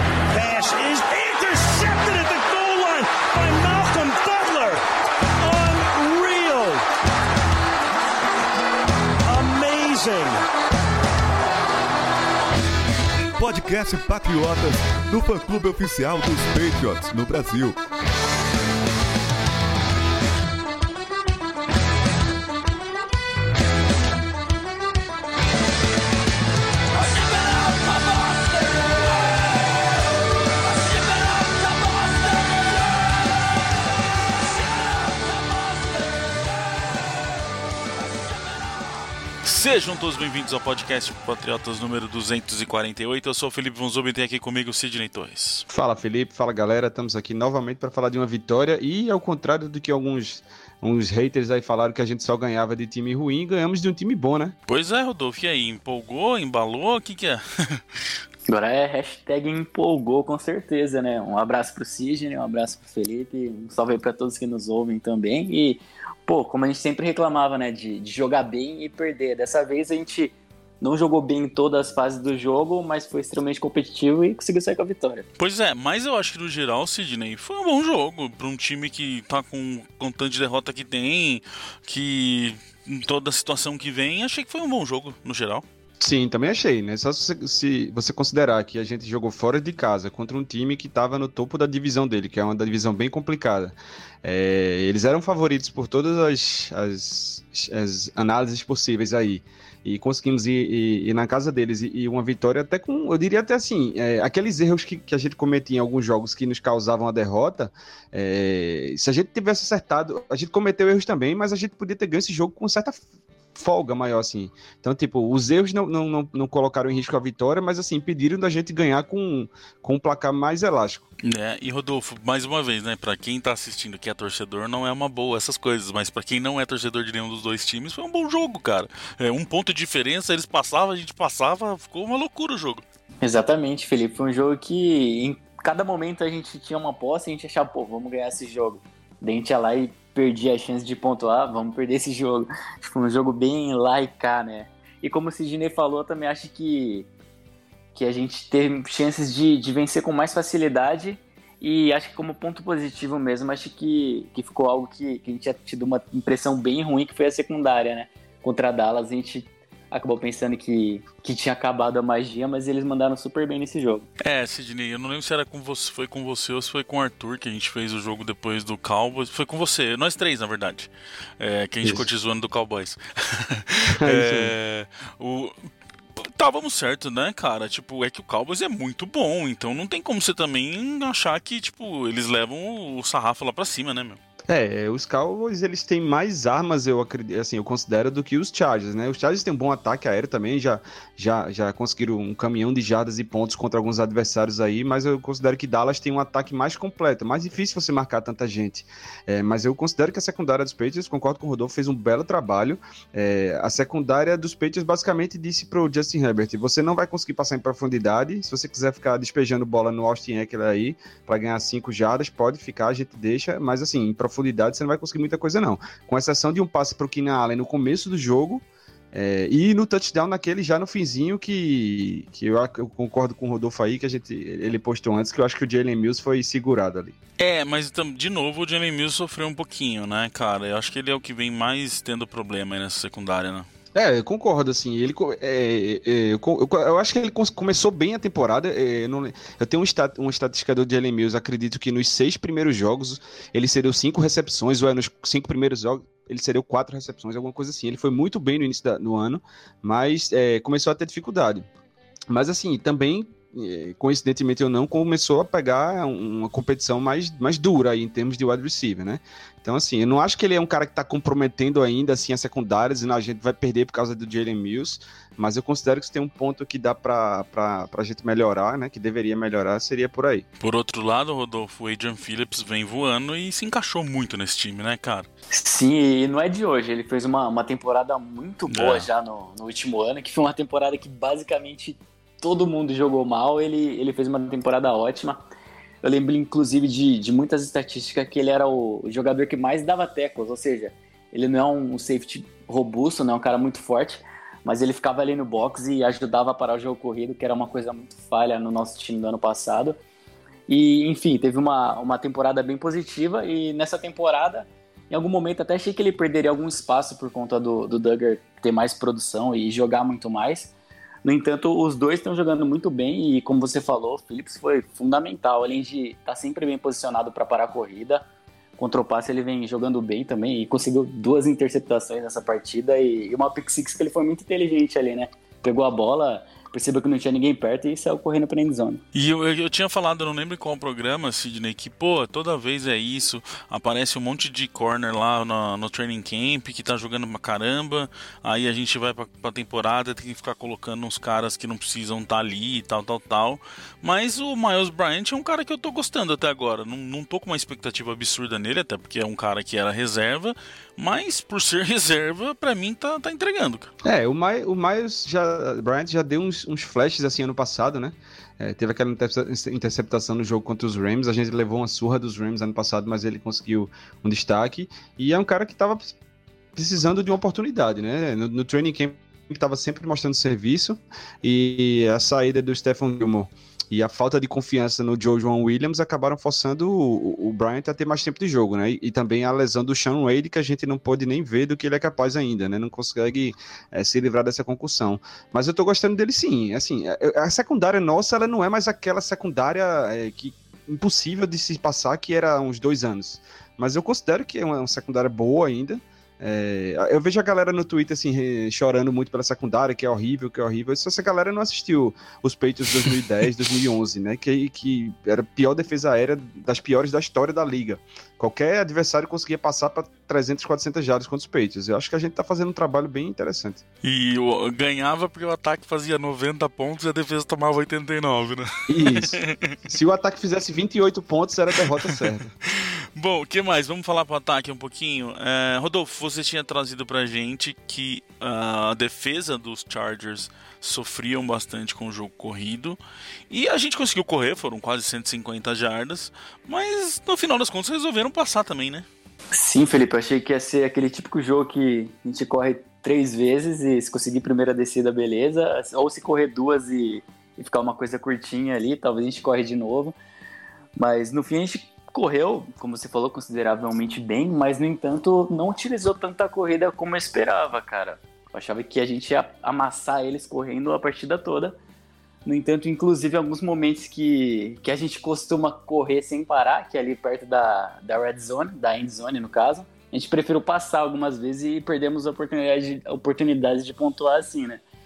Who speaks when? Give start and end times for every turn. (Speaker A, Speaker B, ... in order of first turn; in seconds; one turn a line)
Speaker A: 0.3-4.8
Speaker A: 5.4-6.8
Speaker A: 9.2-10.4
Speaker B: 13.4-17.8
Speaker C: 39.4-45.6
Speaker D: 45.7-54.5
Speaker C: 54.7-58.0
Speaker E: 58.5-75.2
Speaker C: 75.4-85.6
Speaker D: 86.0-113.0
Speaker D: 113.5-121.0
Speaker C: 121.2-132.8
Speaker E: 133.2-147.1
Speaker E: 147.9-164.1
Speaker C: 164.2-175.5
Speaker D: 174.0-174.5
Speaker C: 176.2-184.2
Speaker D: 184.5-227.1
Speaker C: 227.4-233.7
Speaker D: 233.9-251.7
Speaker D: 252.3-270.4
Speaker C: 270.6-275.3
Speaker E: 275.5-285.4
Speaker C: 278.7-279.1
Speaker E: 286.0-299.9
Speaker E: 300.7-310.7
Speaker E: 311.2-318.2
Speaker E: 318.8-329.0
Speaker C: 329.1-353.9
Speaker D: 354.0-366.2
Speaker D: 366.8-413.8
Speaker C: 414.0-419.7
Speaker D: 418.9-422.5
Speaker C: 422.6-433.0
Speaker C: 433.5-439.1
Speaker E: 439.5-450.1
Speaker E: 451.0-461.8
Speaker E: 462.4-474.8